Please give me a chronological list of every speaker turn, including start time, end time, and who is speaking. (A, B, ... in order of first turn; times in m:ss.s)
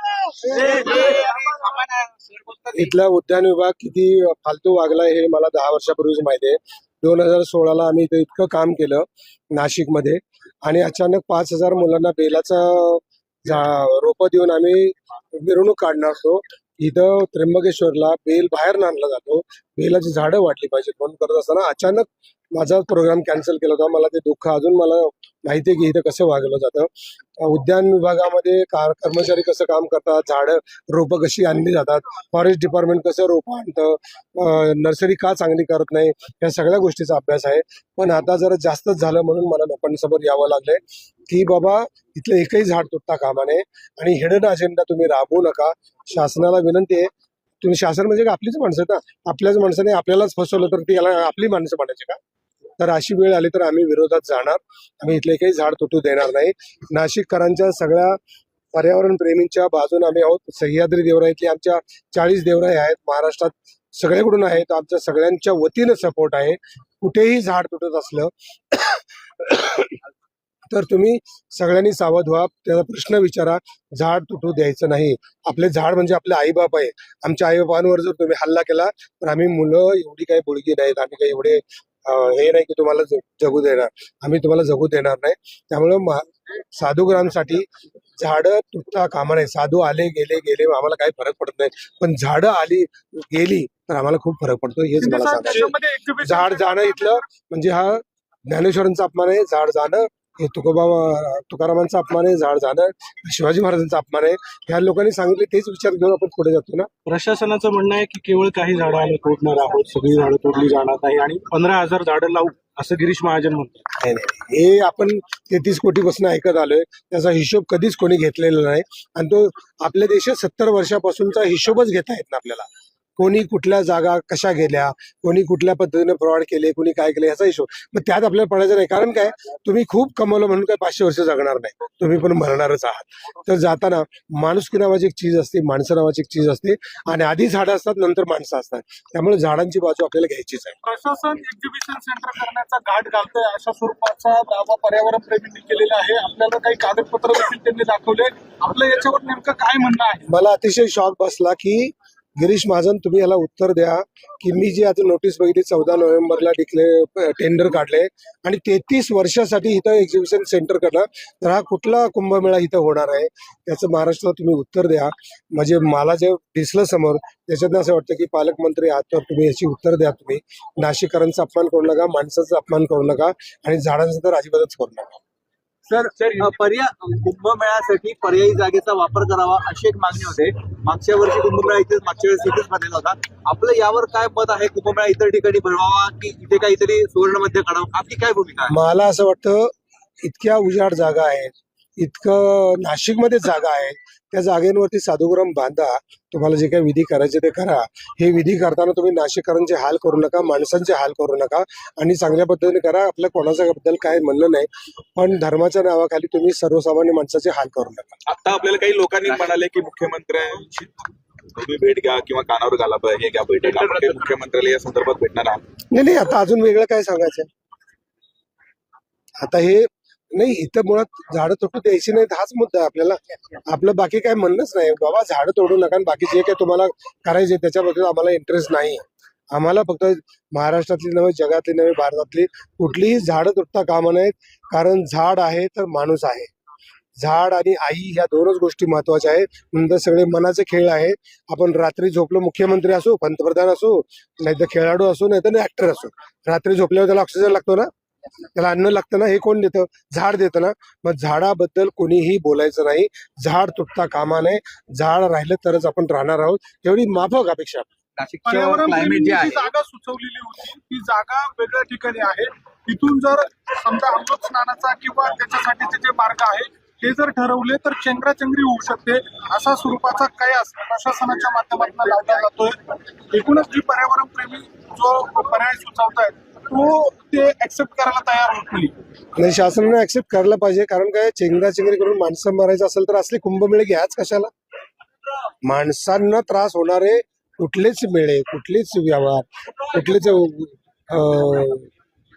0:00.4-0:01.9 A
0:02.7-0:47.1 B
0:47.6-0:52.2 B
0:52.8-0:58.2 B
0:58.7-1:10.0 B
1:10.7-1:27.7 B
1:28.2-1:35.7 B
1:35.0-1:37.2 C
1:36.2-1:46.9 B
1:47.1-1:53.8 D
1:54.0-2:20.8 B
2:20.8-2:30.3 C
2:30.3-2:55.2 B
2:55.9-3:08.8 A
3:08.7-3:28.2 B
3:28.3-3:30.9 E
3:31.6-3:35.6 E
3:33.6-3:34.2 A
3:35.9-3:37.5 B
3:39.4-3:56.5 B
3:57.2-4:07.9 B
4:08.6-4:17.9 B
4:18.2-4:19.6 A
4:18.4-4:39.0 C
4:39.4-4:44.5 B
4:45.6-4:51.9 B